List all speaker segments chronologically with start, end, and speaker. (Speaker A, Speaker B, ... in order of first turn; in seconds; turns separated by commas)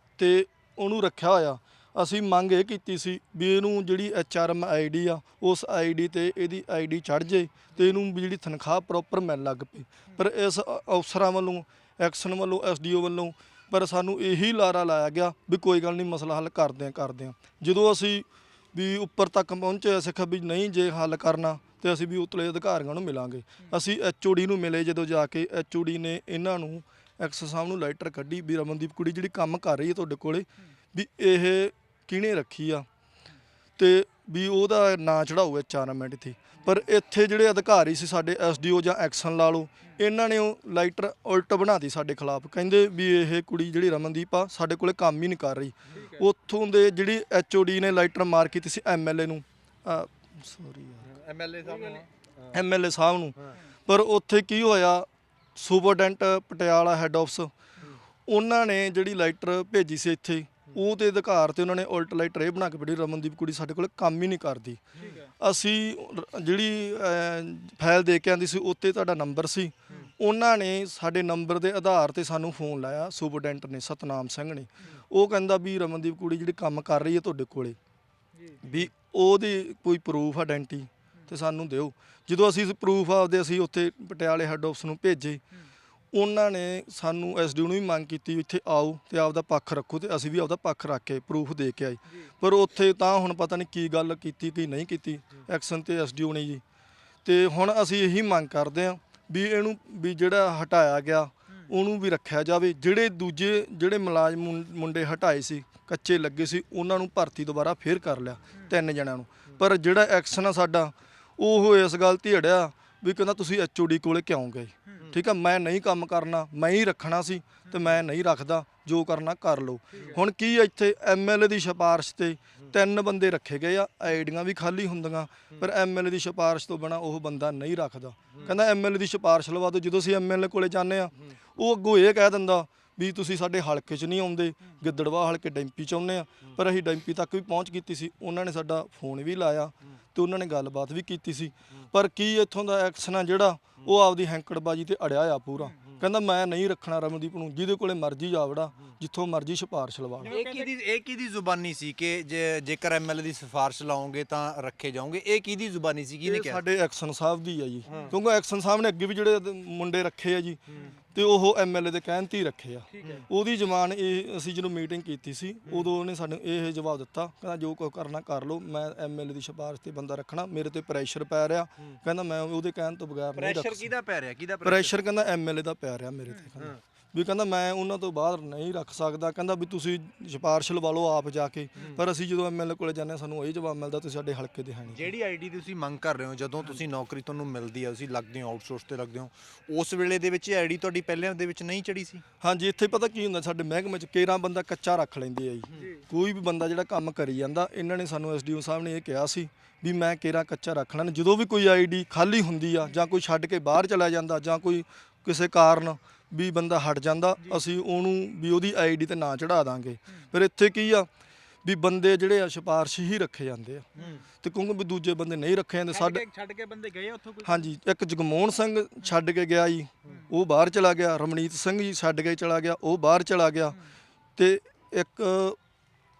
Speaker A: 0.2-32.9, Speaker A: 33.8-51.1, Speaker B: 45.9-46.2, Speaker C: 51.0-52.6, Speaker B: 51.6-52.0, Speaker A: 52.5-57.5, Speaker A: 58.3-64.8, Speaker B: 65.0-65.3, Speaker A: 65.4-77.8, Speaker B: 78.3-78.6, Speaker A: 78.7-85.4, Speaker A: 86.1-96.6, Speaker A: 97.2-150.3, Speaker B: 117.7-118.0, Speaker B: 119.9-120.2, Speaker C: 119.9-120.2, Speaker B: 150.2-150.7, Speaker C: 150.3-156.6, Speaker A: 156.2-160.6, Speaker C: 157.9-158.2, Speaker B: 157.9-158.1, Speaker A: 161.1-173.9, Speaker B: 162.9-163.2, Speaker C: 165.7-165.9, Speaker C: 173.3-175.0, Speaker A: 174.6-185.1, Speaker C: 181.8-182.0, Speaker C: 184.9-192.2, Speaker A: 192.4-211.1, Speaker B: 195.7-196.0, Speaker A: 211.6-213.9, Speaker B: 213.9-214.2, Speaker A: 214.4-216.2, Speaker B: 215.9-217.7, Speaker A: 217.4-223.8, Speaker B: 220.0-220.3, Speaker A: 224.4-225.6